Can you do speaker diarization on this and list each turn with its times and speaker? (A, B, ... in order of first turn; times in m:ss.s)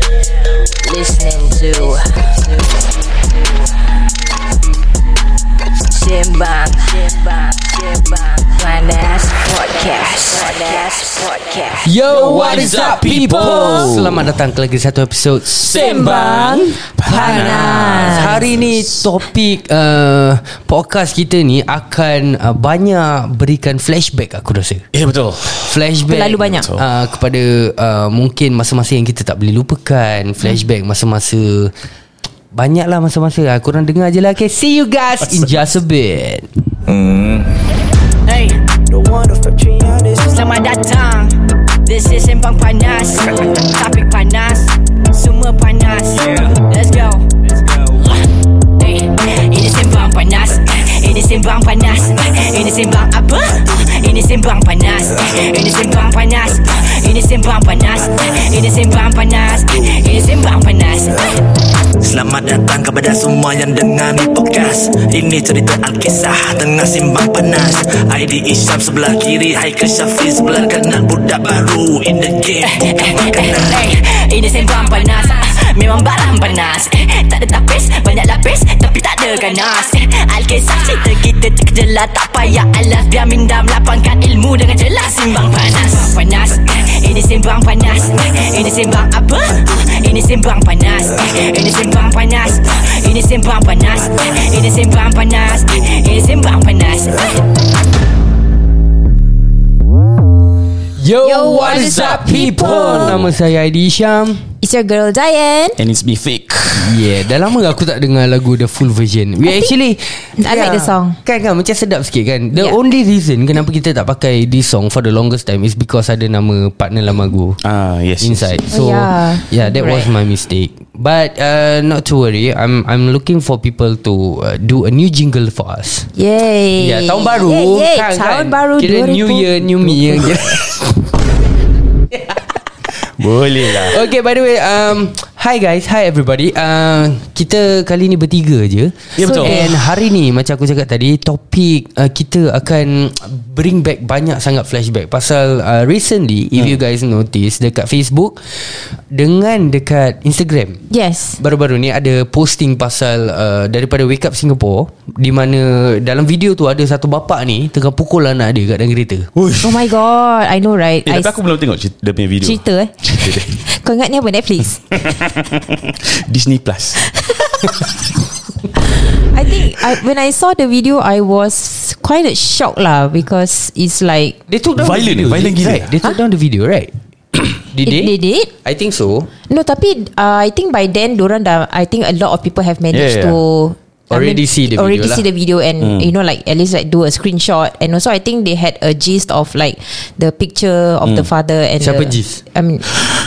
0:00.7-0:02.4 A
0:05.8-0:11.9 A
0:11.8-0:15.7 B
0:12.1-0:14.3 C
0:15.5-0:18.8 C
0:15.6-0:18.4 D
0:17.0-0:24.9 B
0:24.9-0:25.8 C
0:25.5-0:31.7 B
0:26.1-0:26.7 D
0:26.5-0:26.8 C
0:32.5-0:36.5 B
0:38.2-0:47.2 A
0:48.8-1:01.4 A
1:02.0-1:12.6 E
1:12.5-1:37.4 A
1:41.0-1:44.4 B
1:41.2-1:43.2 D
1:42.8-1:43.3 C
1:44.6-1:45.8 D
1:45.8-1:47.3 C
1:46.7-1:57.6 B
1:49.4-1:49.7 D
1:50.4-1:51.2 D
1:57.6-1:58.6 C
1:58.2-2:06.1 B
1:58.7-2:00.1 D
2:06.1-2:10.4 D
2:06.8-2:10.8 B
2:13.0-2:14.0 C
2:13.8-2:30.8 B
2:19.2-2:19.7 C
2:19.2-2:19.8 D
2:30.9-2:31.4 D
2:31.4-2:39.3 B
2:39.3-2:39.9 C
2:39.6-2:41.3 D
2:41.0-2:43.5 C
2:42.4-2:44.8 D
2:44.9-2:47.0 C
2:49.3-2:54.4 D
2:54.5-2:59.3 B
2:54.8-2:55.9 C
2:57.8-2:58.5 D
2:59.5-3:12.9 D
3:02.9-3:03.4 C
3:04.1-3:05.2 B
3:05.8-3:06.1 C
3:11.8-3:12.4 B